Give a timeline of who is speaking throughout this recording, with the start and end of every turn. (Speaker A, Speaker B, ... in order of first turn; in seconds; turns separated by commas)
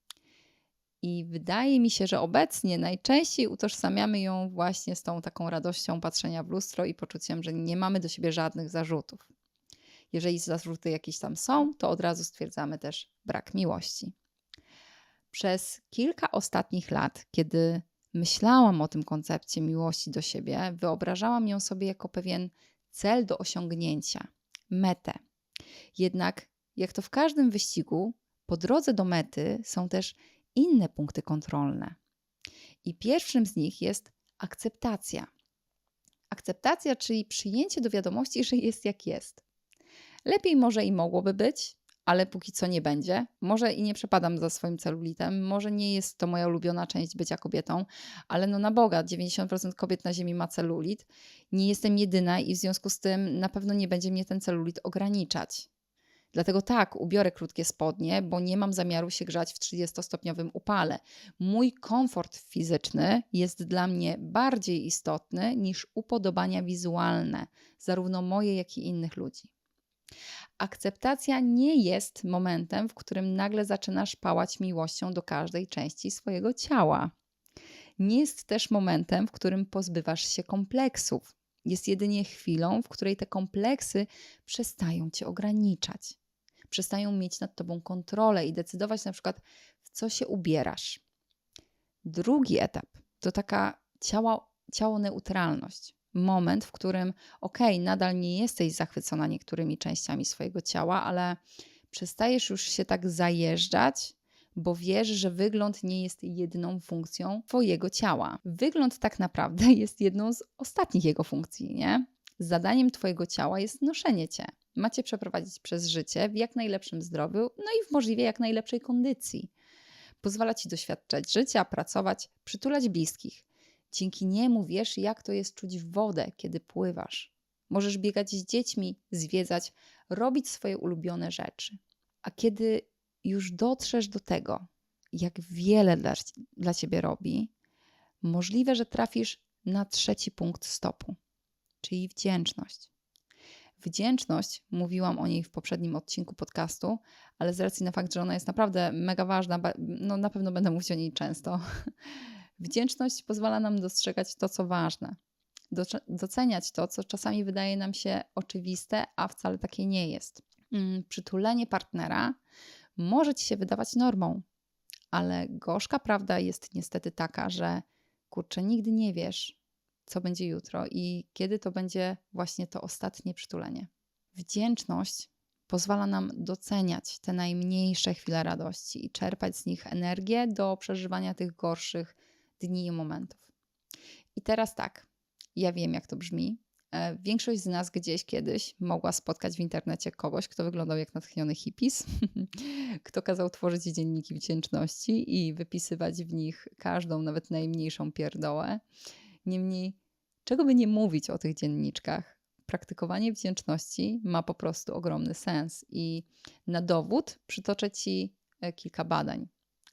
Speaker A: 1.0-9.3, Speaker A: 10.1-14.1, Speaker A: 15.3-25.2, Speaker A: 26.0-32.0, Speaker A: 32.8-35.3, Speaker A: 36.3-39.4, Speaker A: 40.3-55.7, Speaker A: 56.3-69.5, Speaker A: 70.6-77.1, Speaker A: 78.0-86.2, Speaker A: 86.7-91.0, Speaker A: 92.0-101.4, Speaker A: 101.9-119.5, Speaker A: 120.2-137.5, Speaker A: 138.2-141.2, Speaker A: 141.8-142.9, Speaker A: 143.8-151.6, Speaker A: 152.6-155.2, Speaker A: 155.7-162.4, Speaker A: 163.0-164.4, Speaker A: 165.1-183.5, Speaker A: 184.4-198.8, Speaker A: 199.4-209.5